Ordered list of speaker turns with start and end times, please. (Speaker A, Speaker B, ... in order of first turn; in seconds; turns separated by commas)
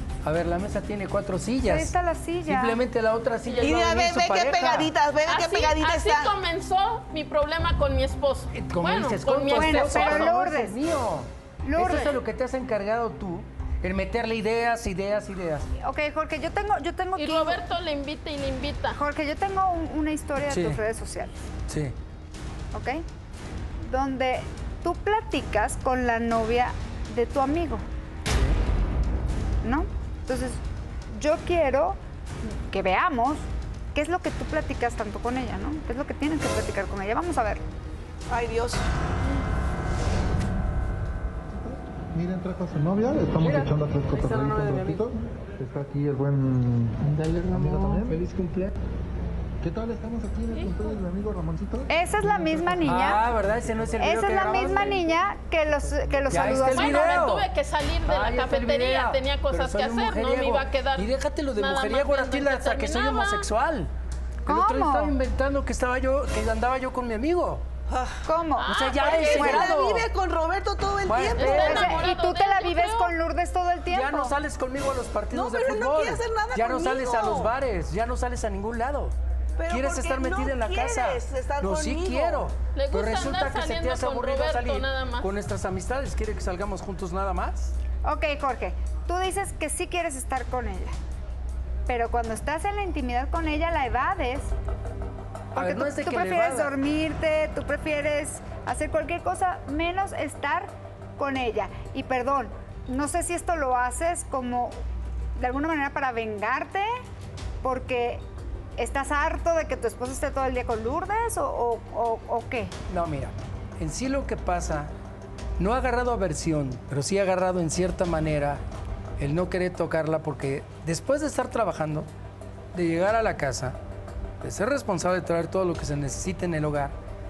Speaker A: 0.2-1.9, Speaker B: 1.6-2.8, Speaker A: 2.5-4.9, Speaker C: 3.5-3.8, Speaker D: 3.6-6.3, Speaker C: 5.2-10.3, Speaker A: 8.5-15.7, Speaker B: 9.5-10.8, Speaker B: 11.6-12.2, Speaker B: 15.8-17.6, Speaker C: 17.2-19.0, Speaker B: 18.9-21.4, Speaker A: 20.5-20.8, Speaker A: 21.7-21.9, Speaker B: 22.7-23.0, Speaker B: 23.8-27.9, Speaker A: 28.3-28.6, Speaker B: 29.6-37.6, Speaker D: 38.3-38.9, Speaker E: 41.5-48.2, Speaker A: 43.4-45.1, Speaker A: 47.0-48.8, Speaker E: 49.6-53.1, Speaker C: 50.5-51.0, Speaker B: 51.9-53.2, Speaker A: 52.8-55.1, Speaker B: 54.0-57.1, Speaker A: 56.3-57.5, Speaker C: 56.5-63.5, Speaker A: 58.1-63.9, Speaker A: 64.5-67.6, Speaker B: 64.5-65.2, Speaker D: 67.9-68.2, Speaker B: 68.2-69.8, Speaker C: 68.6-69.2, Speaker A: 68.6-70.1, Speaker D: 69.0-72.0, Speaker A: 71.0-72.0, Speaker C: 71.3-73.2, Speaker B: 71.4-74.4, Speaker A: 73.9-79.2, Speaker D: 75.3-77.5, Speaker D: 79.6-82.5, Speaker A: 79.7-87.8, Speaker C: 82.7-85.3, Speaker B: 88.0-90.9, Speaker B: 91.9-94.5, Speaker A: 95.5-96.8, Speaker B: 95.5-104.8, Speaker B: 105.4-106.9, Speaker B: 107.6-108.2, Speaker B: 108.8-112.8, Speaker A: 112.9-114.9, Speaker A: 115.6-118.6, Speaker A: 119.2-122.1, Speaker A: 122.7-123.8, Speaker A: 124.4-126.9